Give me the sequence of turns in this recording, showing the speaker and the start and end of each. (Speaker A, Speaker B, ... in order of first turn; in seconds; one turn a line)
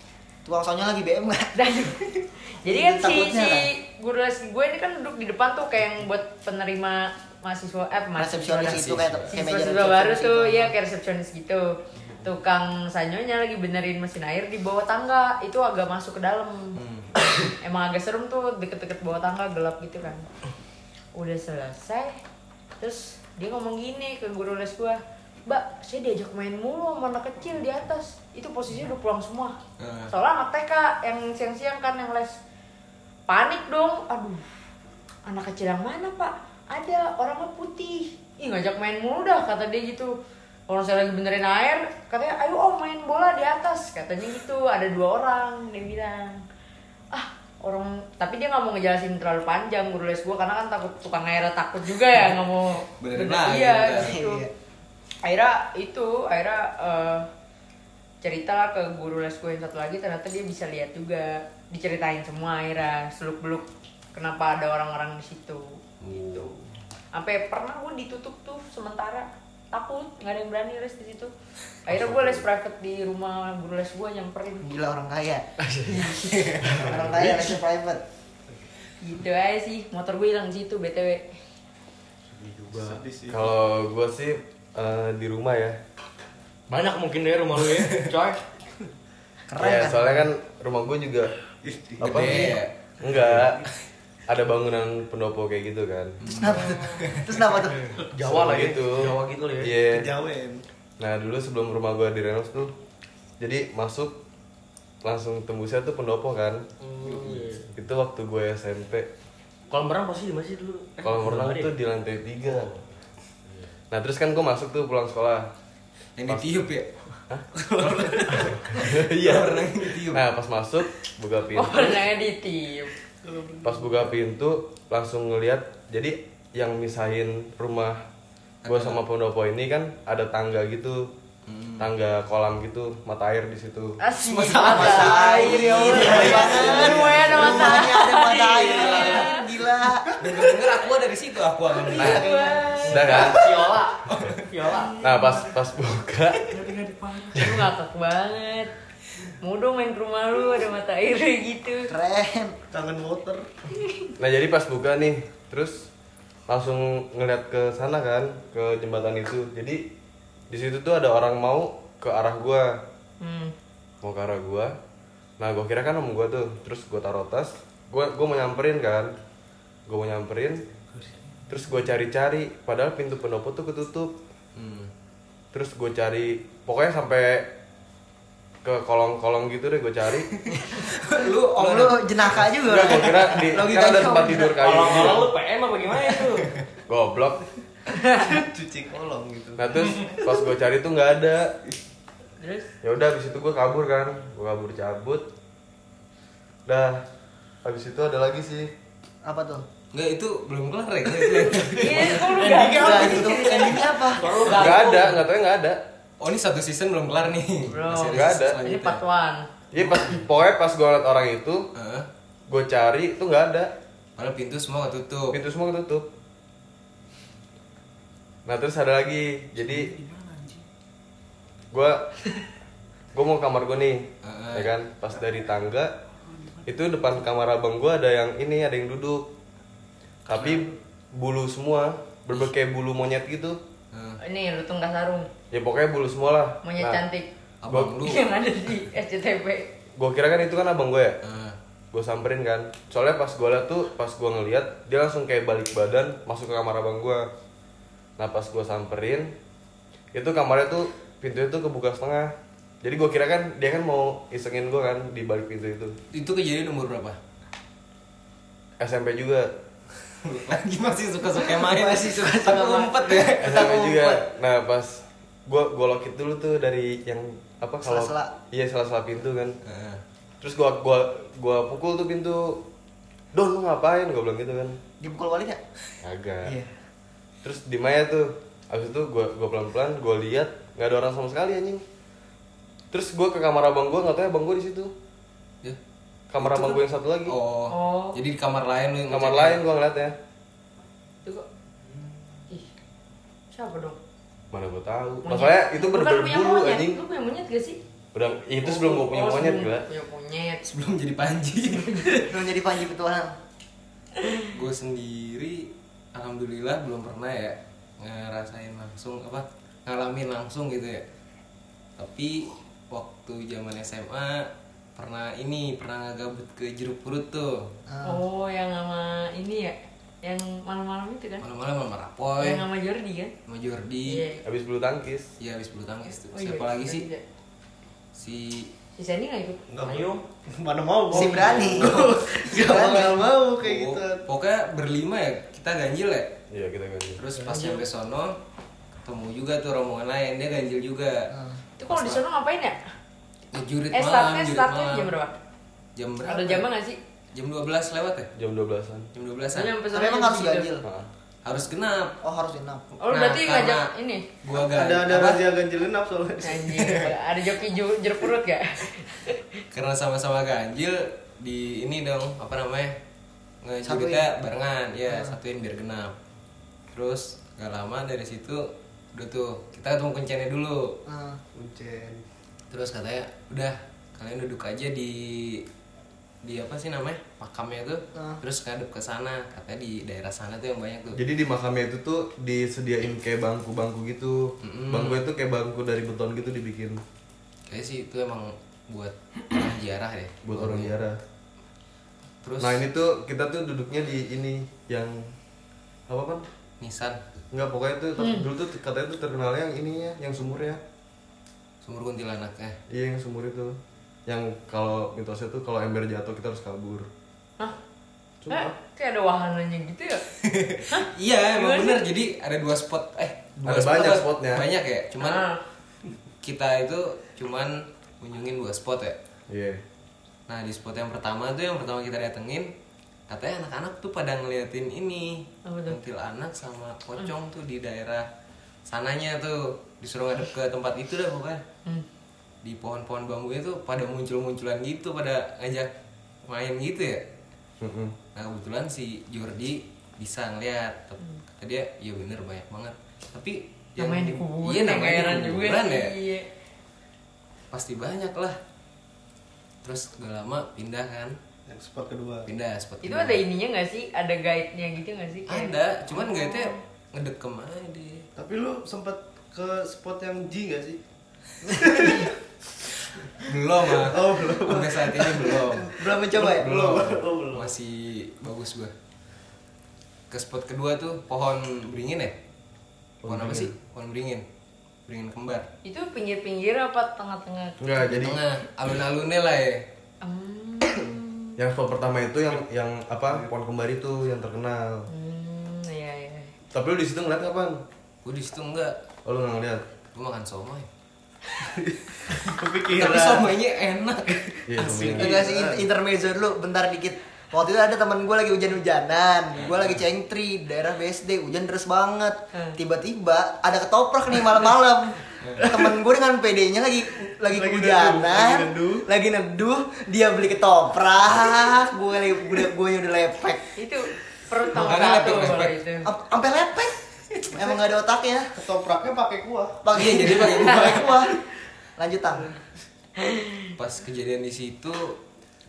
Speaker A: 0.4-2.0
Speaker B: 1.5-20.2
Speaker A: 2.6-3.7
Speaker A: 8.2-10.7
Speaker C: 8.6-9.3
Speaker C: 11.9-12.2
Speaker C: 16.8-17.1
Speaker B: 21.1-22.2
Speaker B: 22.8-29.5
Speaker C: 29.8-30.1
Speaker B: 30.1-32.4
Speaker B: 33.3-34.4
Speaker B: 35.2-40.1
Speaker B: 40.7-46.4
Speaker B: 47.1-54.4
Speaker C: 53.0-54.1
Speaker A: 54.0-54.5
Speaker B: 55.2-57.3
Speaker B: 58.2-66.5
Speaker C: 66.0-66.5
Speaker B: 67.1-71.3
Speaker B: 71.8-74.7
Speaker C: 71.9-72.2
Speaker D: 72.0-72.4
Speaker A: 74.6-75.5
Speaker D: 75.6-76.1
Speaker B: 75.9-76.5
Speaker C: 76.2-76.9
Speaker D: 76.6-77.5
Speaker A: 76.7-78.0
Speaker B: 79.0-81.3
Speaker E: 82.6-83.5
Speaker D: 83.3-85.8
Speaker F: 86.7-88.4
Speaker A: 89.5-90.3
Speaker D: 89.6-91.3
Speaker E: 91.6-92.2
Speaker D: 92.0-93.7
Speaker C: 92.0-92.7
Speaker F: 92.2-92.5
Speaker E: 93.1-93.5
Speaker D: 94.3-96.2
Speaker C: 96.2-97.2
Speaker A: 96.4-97.9
Speaker B: 96.7-97.0
Speaker F: 98.1-99.8
Speaker D: 98.2-100.1
Speaker E: 99.8-100.6
Speaker D: 101.0-102.7
Speaker D: 103.4-104.2
Speaker D: 105.0-106.6
Speaker F: 106.8-107.6
Speaker C: 107.0-107.6
Speaker D: 107.7-109.1
Speaker F: 109.7-111.7
Speaker D: 111.0-112.8
Speaker D: 113.9-115.5
Speaker C: 116.2-116.9
Speaker D: 116.3-116.7
Speaker E: 117.6-118.5
Speaker C: 117.8-120.2
Speaker D: 118.3-122.1
Speaker B: 121.5-122.9
Speaker E: 123.2-124.1
Speaker D: 123.6-128.0
Speaker C: 128.6-129.0
Speaker D: 128.6-131.1
Speaker C: 131.4-131.9
Speaker D: 131.8-134.0
Speaker B: 134.0-139.4
Speaker C: 134.2-139.3
Speaker A: 134.3-140.1
Speaker E: 136.8-137.1
Speaker C: 140.2-142.3
Speaker A: 141.8-143.3
Speaker B: 141.9-143.2
Speaker D: 142.0-142.2
Speaker D: 142.9-143.5
Speaker F: 143.1-145.0
Speaker C: 144.1-144.4
Speaker B: 144.8-145.1
Speaker D: 145.0-146.6
Speaker F: 146.5-147.4
Speaker B: 147.3-148.7
Speaker B: 149.4-151.9
Speaker A: 151.9-152.6
Speaker E: 152.7-153.5
Speaker B: 153.8-154.1
Speaker D: 154.2-155.9
Speaker D: 156.5-159.8
Speaker D: 160.5-162.8
Speaker B: 163.2-163.5
Speaker D: 164.0-164.7
Speaker D: 165.4-169.1
Speaker D: 169.9-170.6
Speaker D: 171.5-174.1
Speaker C: 174.6-174.9
Speaker D: 175.5-177.5
Speaker D: 178.6-180.3
Speaker C: 180.3-182.5
Speaker A: 180.8-184.9
Speaker D: 182.6-185.3
Speaker F: 184.5-186.5
Speaker D: 186.9-187.4
Speaker B: 188.0-188.3
Speaker E: 188.2-189.8
Speaker D: 189.6-191.5
Speaker B: 192.4-192.7
Speaker D: 192.8-195.2
Speaker D: 196.7-197.0
Speaker D: 197.6-198.7
Speaker A: 199.2-199.6
Speaker C: 199.9-202.4
Speaker B: 201.6-204.8
Speaker A: 201.9-204.5
Speaker F: 204.2-205.1
Speaker D: 204.5-205.8
Speaker C: 206.2-209.0
Speaker B: 207.7-209.5
Speaker D: 208.1-208.6
Speaker D: 209.7-211.7
Speaker C: 211.7-212.1
Speaker D: 212.5-213.7
Speaker C: 214.2-215.3
Speaker D: 215.3-216.1
Speaker D: 218.4-219.9
Speaker D: 221.7-222.1
Speaker D: 223.1-225.9
Speaker C: 224.2-224.7
Speaker D: 226.7-229.3
Speaker D: 230.3-233.6
Speaker C: 230.3-230.6
Speaker C: 233.9-234.2
Speaker B: 234.2-235.3
Speaker D: 235.5-237.0
Speaker B: 236.6-237.3
Speaker C: 237.6-238.2
Speaker D: 237.7-237.9
Speaker B: 238.0-239.7
Speaker D: 239.9-241.2
Speaker C: 241.2-241.6
Speaker D: 241.9-247.3
Speaker D: 248.2-249.3
Speaker D: 250.1-256.0
Speaker C: 256.1-257.2
Speaker D: 258.8-259.5
Speaker C: 260.2-263.8
Speaker A: 261.4-264.2
Speaker D: 263.4-269.6
Speaker A: 267.8-268.3
Speaker C: 269.6-270.0
Speaker D: 270.4-272.6
Speaker D: 273.3-274.8
Speaker A: 275.0-275.6
Speaker D: 276.0-276.6
Speaker A: 276.4-276.7
Speaker D: 277.4-281.8
Speaker D: 282.9-284.9
Speaker D: 286.3-287.3
Speaker C: 286.4-289.6
Speaker B: 287.7-288.2
Speaker D: 289.1-290.1
Speaker B: 293.5-294.0
Speaker D: 294.5-297.0
Speaker B: 295.2-297.8
Speaker D: 298.1-299.9
Speaker B: 298.6-300.6
Speaker C: 300.6-302.3
Speaker B: 301.7-302.2
Speaker A: 302.2-303.3
Speaker B: 304.2-304.5
Speaker C: 304.5-311.0
Speaker C: 312.0-317.7
Speaker A: 317.9-318.2
Speaker B: 318.0-321.4
Speaker C: 321.4-322.6
Speaker B: 322.4-323.3
Speaker C: 323.5-324.3
Speaker B: 324.0-324.4
Speaker D: 324.4-325.3
Speaker C: 325.4-327.1
Speaker B: 326.3-327.2
Speaker C: 328.1-328.7
Speaker B: 329.0-329.6
Speaker E: 329.7-334.2
Speaker F: 329.8-330.2
Speaker A: 331.1-333.3
Speaker F: 331.1-331.6
Speaker C: 333.6-336.3
Speaker D: 336.5-337.2
Speaker C: 337.2-338.4
Speaker F: 337.4-337.8
Speaker C: 339.0-341.3
Speaker A: 341.3-341.6
Speaker B: 341.8-342.8
Speaker C: 341.9-342.2
Speaker C: 343.5-345.1
Speaker B: 343.9-345.3
Speaker C: 345.9-346.7
Speaker B: 346.2-347.0
Speaker C: 347.3-348.3
Speaker D: 348.4-349.1
Speaker C: 349.1-349.7
Speaker B: 349.5-350.7
Speaker A: 349.9-350.9
Speaker C: 351.4-352.1
Speaker A: 352.2-352.8
Speaker B: 353.0-354.2
Speaker C: 353.1-353.9
Speaker C: 354.4-355.4
Speaker E: 354.5-357.1
Speaker B: 356.4-359.6
Speaker C: 359.7-362.9
Speaker C: 363.6-366.1
Speaker A: 363.8-364.2
Speaker A: 365.1-365.3
Speaker C: 366.9-370.9
Speaker A: 371.1-371.4
Speaker E: 371.5-372.2
Speaker C: 372.7-375.6
Speaker C: 376.4-381.2
Speaker D: 381.1-387.0
Speaker C: 384.6-385.2
Speaker C: 387.7-390.9
Speaker D: 390.4-391.2
Speaker C: 392.4-392.8
Speaker D: 392.6-395.3
Speaker D: 396.1-396.4
Speaker C: 396.8-397.2
Speaker D: 397.5-400.8
Speaker B: 398.2-398.5
Speaker C: 401.8-402.8
Speaker D: 402.9-407.1
Speaker D: 408.4-408.7
Speaker B: 408.5-410.2
Speaker C: 410.4-415.4
Speaker B: 410.9-412.1
Speaker D: 413.6-414.7
Speaker B: 415.2-415.6
Speaker C: 416.4-419.2
Speaker D: 419.5-419.8
Speaker C: 420.5-422.7
Speaker C: 423.3-428.3
Speaker B: 425.6-426.0
Speaker C: 428.9-431.6
Speaker C: 432.6-435.9
Speaker C: 436.4-437.2
Speaker D: 437.8-438.1
Speaker C: 438.3-446.1
Speaker B: 444.0-446.5
Speaker C: 447.7-448.6
Speaker C: 449.8-451.4
Speaker E: 451.7-452.5
Speaker C: 452.5-453.4
Speaker B: 453.0-456.8
Speaker C: 455.5-458.3
Speaker E: 458.4-461.0
Speaker E: 461.8-462.3
Speaker C: 463.4-466.0
Speaker E: 463.9-465.8
Speaker A: 465.9-466.8
Speaker E: 466.3-467.7
Speaker C: 466.6-468.9
Speaker C: 470.3-472.3
Speaker D: 473.2-473.7
Speaker C: 473.2-474.4
Speaker C: 475.1-475.7
Speaker B: 475.8-477.8
Speaker D: 477.8-478.4
Speaker C: 478.1-479.9
Speaker B: 480.2-481.6
Speaker D: 481.6-485.1
Speaker B: 485.1-486.5
Speaker D: 486.7-487.8
Speaker C: 488.2-489.0
Speaker D: 489.2-489.8
Speaker C: 490.1-490.9
Speaker E: 491.6-493.5
Speaker C: 492.3-495.4
Speaker D: 494.7-495.3
Speaker E: 494.8-495.9
Speaker A: 495.2-513.7
Speaker C: 499.6-500.0
Speaker C: 505.4-505.7
Speaker E: 505.6-505.9
Speaker E: 507.5-509.1
Speaker B: 513.8-516.1
Speaker C: 514.7-515.8
Speaker A: 516.0-517.0
Speaker A: 517.5-518.5
Speaker E: 518.5-519.8
Speaker A: 519.8-521.3
Speaker C: 519.9-521.3
Speaker A: 522.0-522.5
Speaker B: 523.2-523.7
Speaker C: 523.8-525.2